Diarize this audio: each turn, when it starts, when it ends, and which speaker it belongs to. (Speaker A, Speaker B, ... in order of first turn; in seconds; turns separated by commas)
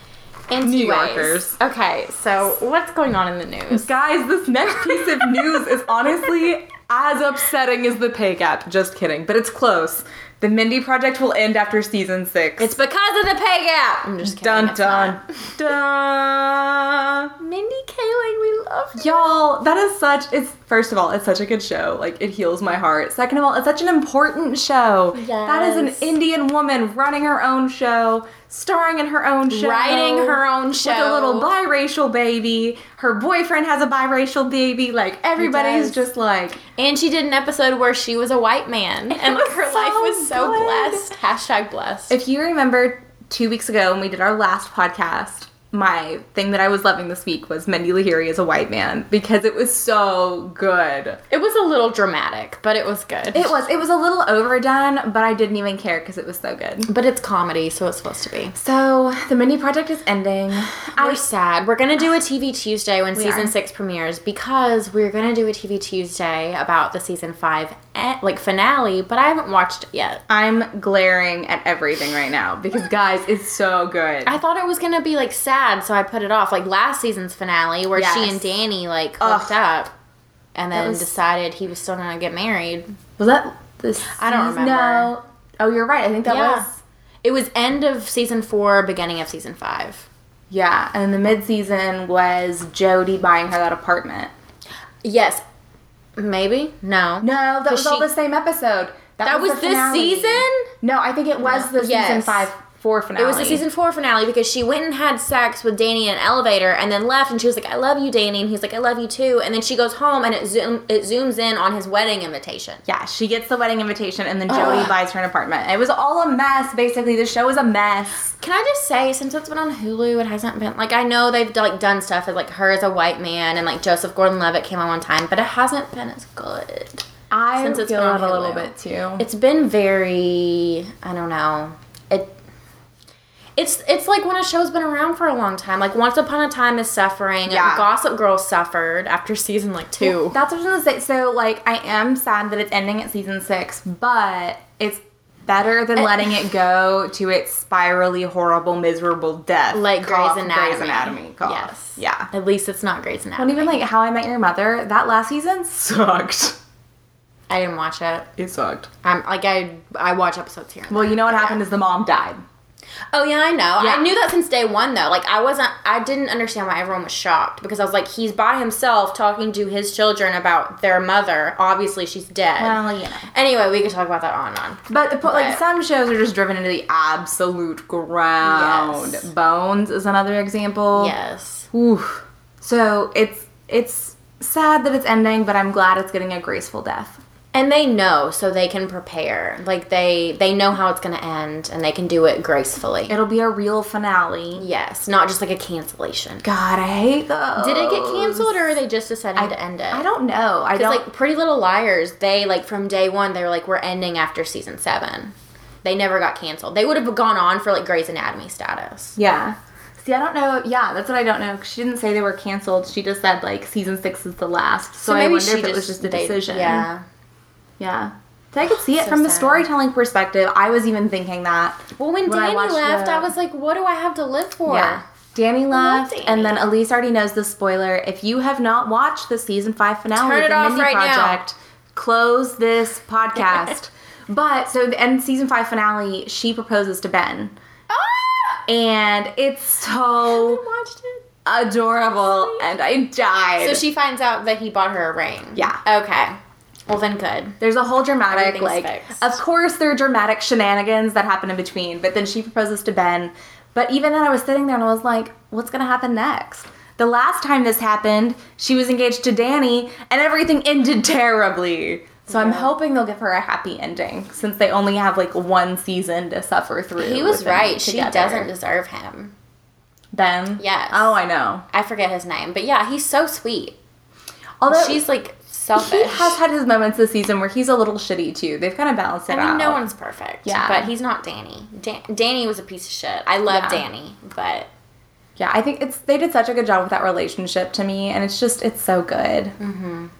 Speaker A: 0.5-3.9, Speaker B: 0.6-1.6, Speaker B: 3.7-12.8, Speaker A: 12.6-15.2, Speaker B: 14.2-17.3, Speaker A: 17.4-19.3, Speaker B: 18.9-36.6, Speaker A: 25.1-26.1, Speaker A: 29.5-31.5, Speaker A: 35.4-36.0, Speaker A: 36.8-42.1, Speaker B: 39.1-41.1, Speaker B: 42.1-51.2, Speaker A: 51.3-53.5, Speaker B: 53.3-56.9, Speaker A: 56.9-58.5, Speaker B: 58.5-61.2, Speaker A: 60.9-70.2, Speaker B: 63.1-63.5, Speaker B: 70.3-74.4, Speaker A: 74.2-79.9, Speaker B: 77.9-78.5, Speaker B: 79.2-79.6, Speaker A: 80.5-82.9, Speaker B: 80.7-81.1, Speaker B: 83.2-86.8, Speaker A: 84.1-85.1, Speaker A: 86.2-86.7, Speaker A: 87.2-90.0, Speaker B: 90.5-94.3, Speaker A: 95.0-95.4, Speaker A: 96.2-98.1, Speaker B: 97.2-103.6, Speaker A: 99.2-100.7, Speaker A: 101.4-102.5, Speaker A: 103.2-112.8, Speaker B: 112.8-118.3, Speaker A: 114.5-114.9, Speaker A: 118.4-132.3, Speaker B: 127.3-129.2, Speaker A: 133.6-140.4, Speaker B: 137.5-137.8, Speaker B: 140.0-152.3, Speaker A: 149.7-153.8, Speaker B: 153.4-156.6, Speaker A: 157.5-158.3, Speaker B: 158.4-158.9, Speaker A: 159.0-161.6, Speaker B: 160.9-162.4, Speaker A: 163.1-175.6, Speaker B: 163.8-164.1, Speaker B: 172.6-173.3, Speaker B: 174.9-181.1, Speaker A: 178.4-179.3, Speaker A: 180.9-181.7, Speaker B: 181.7-187.2, Speaker A: 187.5-193.2, Speaker B: 193.1-194.6, Speaker A: 194.6-196.5, Speaker B: 196.4-198.8, Speaker A: 197.6-200.0, Speaker B: 199.3-201.0, Speaker A: 200.7-209.2, Speaker B: 209.2-216.9, Speaker A: 215.0-217.0, Speaker B: 217.8-223.3, Speaker A: 219.0-219.7, Speaker A: 222.0-225.0, Speaker B: 224.7-237.5, Speaker A: 225.7-226.6, Speaker A: 230.1-231.4, Speaker A: 237.9-238.7, Speaker B: 238.7-240.6, Speaker A: 240.2-241.2, Speaker B: 241.4-243.8, Speaker A: 242.1-242.7, Speaker A: 243.6-247.6, Speaker B: 245.5-245.8, Speaker B: 247.6-268.5, Speaker A: 248.3-249.4, Speaker A: 262.3-262.7, Speaker A: 267.0-269.3, Speaker B: 270.1-271.6, Speaker A: 270.6-271.1, Speaker A: 271.7-273.8, Speaker B: 274.6-275.0, Speaker A: 274.7-276.4, Speaker B: 275.8-279.8, Speaker A: 279.3-284.7, Speaker B: 280.4-280.9, Speaker B: 283.5-283.8, Speaker B: 285.4-289.6, Speaker A: 289.6-290.1